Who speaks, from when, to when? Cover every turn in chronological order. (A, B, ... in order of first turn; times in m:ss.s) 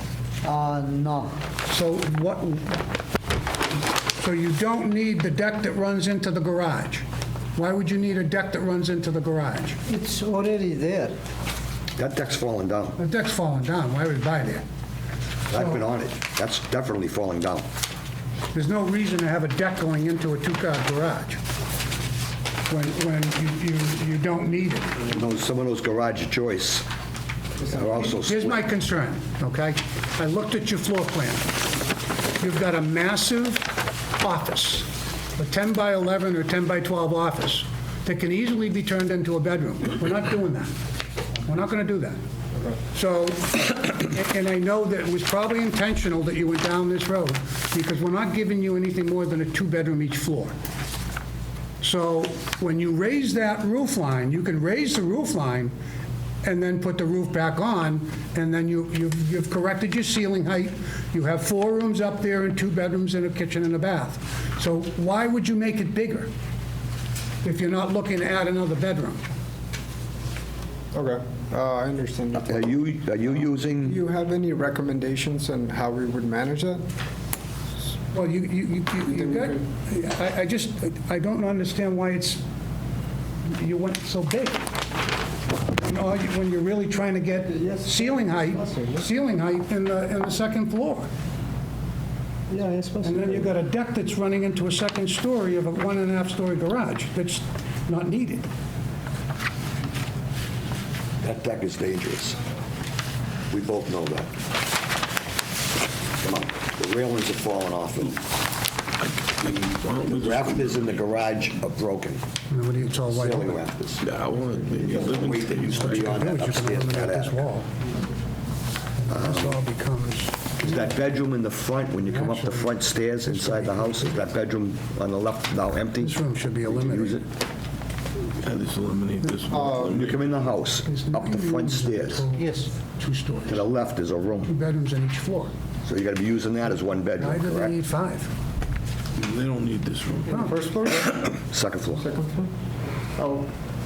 0:00.4-0:01.4 A
0:01.6-0:02.8 B
0:04.2-0:07.0 B
0:07.6-0:09.8 B
0:09.9-0:11.2 A
0:12.0-0:13.0 C
0:13.0-0:14.6 B
0:15.5-0:17.6 C
0:18.5-0:21.4 B
0:22.7-0:25.0 B
0:25.0-0:26.8 C
0:27.7-0:28.6 C
0:28.2-0:31.5 B
0:32.4-0:33.7 B
0:34.2-0:40.7 B
0:41.4-0:42.2 B
0:42.9-0:50.5 B
0:51.8-0:55.8 B
0:56.4-1:06.3 B
1:07.4-1:09.2 B
1:10.9-1:12.8 D
1:12.4-1:14.0 C
1:13.8-1:16.8 D
1:18.1-1:22.4 B
1:19.2-1:19.5 D
1:23.4-1:24.7 B
1:25.7-1:31.1 B
1:32.5-1:33.1 A
1:33.0-1:38.5 B
1:41.2-1:42.4 C
1:43.5-1:44.3 C
1:46.2-1:48.2 C
1:49.0-1:51.0 E
1:50.1-1:52.2 C
1:52.5-1:53.6 B
1:53.1-1:54.0 C
1:54.0-1:56.2 E
1:55.1-1:57.4 C
1:55.8-1:57.7 B
1:59.0-2:00.6 B
1:59.1-1:59.6 C
2:00.6-2:07.2 C
2:02.1-2:02.7 B
2:03.2-2:04.2 B
2:06.0-2:07.2 B
2:08.4-2:10.2 E
2:09.5-2:09.9 D
2:09.8-2:12.2 C
2:10.8-2:13.6 B
2:12.4-2:12.7 A
2:13.5-2:14.5 C
2:14.5-2:15.5 B
2:15.8-2:17.7 C
2:17.2-2:18.3 B
2:19.2-2:20.5 E
2:20.3-2:20.6 B
2:20.4-2:21.1 D
2:21.2-2:22.1 C
2:22.0-2:22.4 D
2:23.2-2:23.4 A